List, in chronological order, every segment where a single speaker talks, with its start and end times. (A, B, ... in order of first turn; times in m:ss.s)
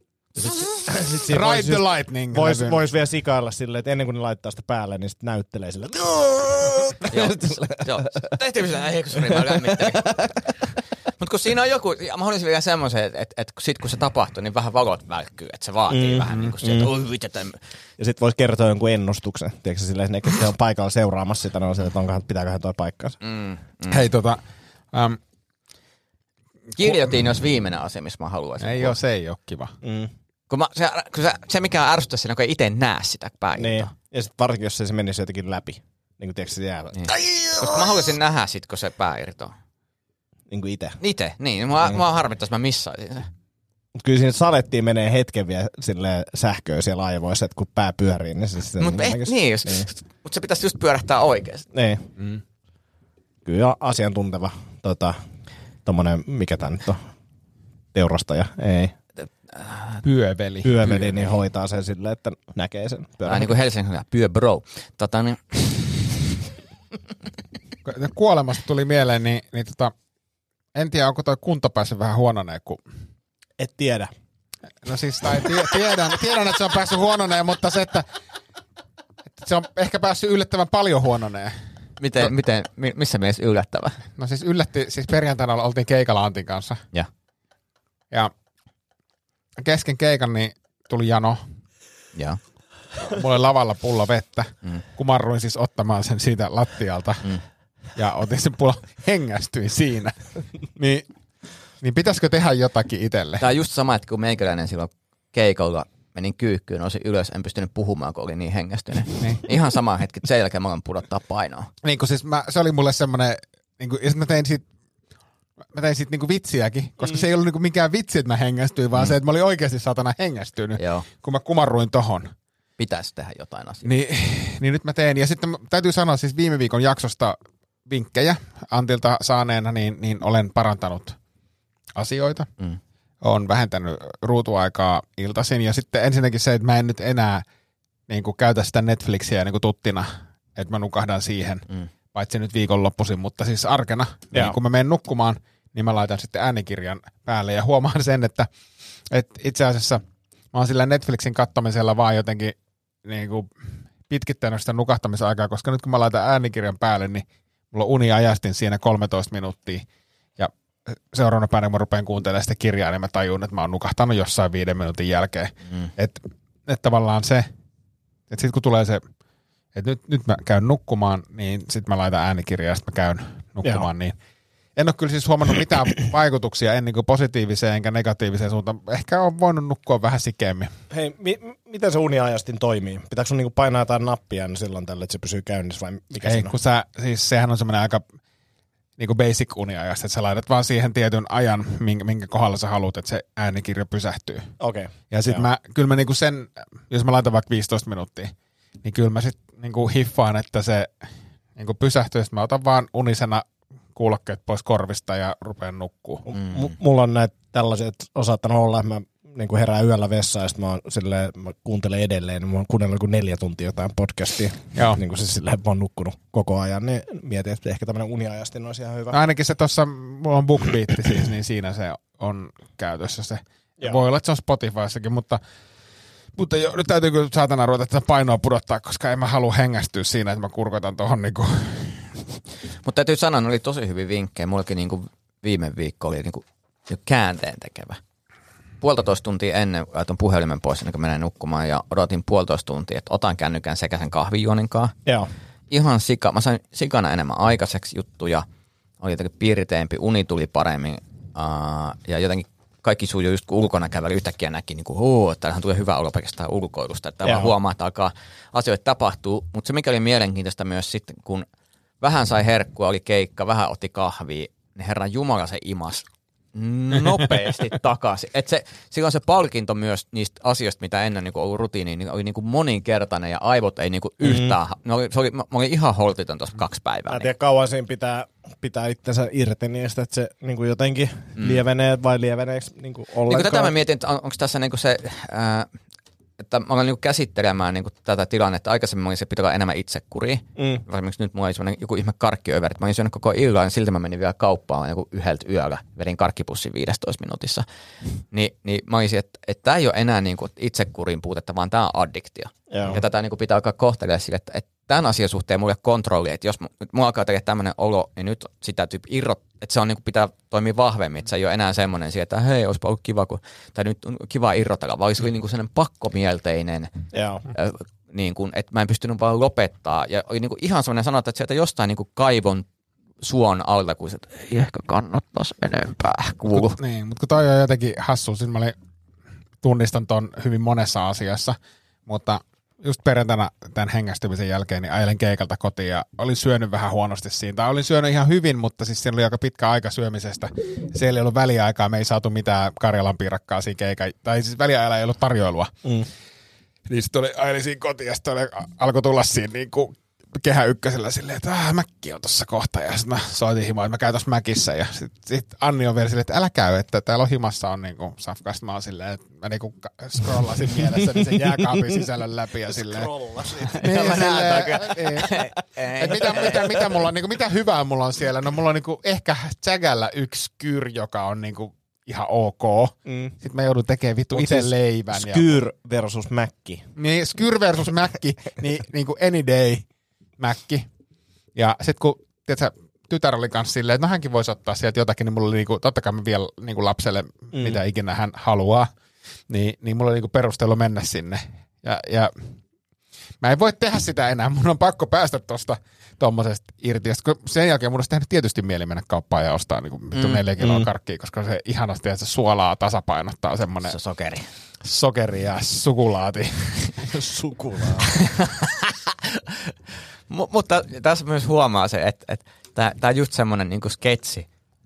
0:00.4-0:08.3 A
0:01.3-0:02.8 B
0:07.1-0:10.2 C
0:09.2-0:10.3 A
0:11.2-0:17.6 C
0:15.9-0:16.9 A
0:18.0-0:23.2 A
0:23.2-0:24.1 C
0:23.9-0:24.4 B
0:24.9-0:25.2 B
0:26.8-0:29.0 C
0:26.8-0:27.2 B
0:28.6-0:29.7 B
0:29.8-0:30.1 A
0:30.5-0:33.9 C
0:33.6-0:37.6 A
0:36.9-0:39.5 C
0:40.5-0:41.0 A
0:41.0-0:43.3 C
0:44.0-0:49.9 A
0:48.8-0:51.7 C
0:51.7-0:52.1 A
0:53.4-0:55.2 A
0:55.8-0:57.0 A
0:57.9-0:59.0 A
0:59.5-1:00.0 C
1:00.0-1:01.2 B
1:00.6-1:03.5 A
1:03.2-1:06.2 C
1:07.8-1:09.9 B
1:10.8-1:12.8 B
1:13.6-1:14.1 A
1:14.8-1:18.1 B
1:19.4-1:21.6 B
1:22.0-1:24.0 C
1:24.2-1:26.8 B
1:29.6-1:31.5 B
1:33.0-1:37.2 B
1:38.0-1:41.0 B
1:41.8-1:43.4 B
1:43.4-1:51.7 C
1:49.2-1:49.4 B
1:51.8-1:54.6 B
1:55.7-2:02.3 B
2:00.8-2:01.1 C
2:02.8-2:03.9 C
2:03.8-2:11.2 B
2:12.0-2:12.5 B
2:13.2-2:17.4 B
2:18.1-2:28.5 B
2:24.3-2:24.6 A
2:29.1-2:30.0 B
2:30.5-2:33.5 B
2:34.1-2:39.8 B
2:40.4-2:47.5 B
2:48.3-2:49.0 B
2:49.8-2:54.2 B
2:54.8-3:00.7 B
3:00.9-3:06.6 A
3:06.2-3:08.0 B
3:09.0-3:14.5 B
3:14.6-3:15.5 A
3:15.1-3:20.9 B
3:21.6-3:26.3 B
3:26.3-3:39.2 A
3:26.4-3:26.7 C
3:34.8-3:35.0 B
3:39.1-3:45.4 B
3:46.4-3:52.1 B
3:52.8-3:58.0 C
3:58.8-4:05.0 C
4:05.7-4:08.5 C
4:09.0-4:21.5 C
4:17.2-4:17.5 A
4:22.0-4:37.3 C
4:34.2-4:34.6 A
4:37.1-4:43.7 A
4:41.4-4:41.6 C
4:43.3-4:45.7 C
4:46.4-4:57.6 C
4:50.6-4:50.8 A
4:58.3-5:16.9 C
5:02.7-5:03.0 A
5:17.1-5:17.5 A
5:17.5-5:22.7 C
5:23.2-5:26.8 C
5:26.5-5:28.8 B
5:29.6-5:31.6 B
5:32.1-5:45.7 B
5:46.9-6:03.1 B
6:00.7-6:02.1 A
6:02.7-6:04.6 A
6:03.8-6:05.3 B
6:03.8-6:06.6 C
6:06.0-6:15.6 B
6:13.1-6:13.4 A
6:14.3-6:16.9 A
6:17.0-6:19.9 B
6:20.4-6:20.9 B
6:21.6-6:28.9 B
6:27.5-6:27.8 A
6:29.5-6:32.3 B
6:33.4-6:44.0 B
6:40.1-6:40.4 C
6:40.6-6:40.9 A
6:43.8-6:44.5 C
6:44.8-6:47.0 B
6:47.0-6:48.1 A
6:48.2-6:49.7 C
6:50.3-6:54.5 C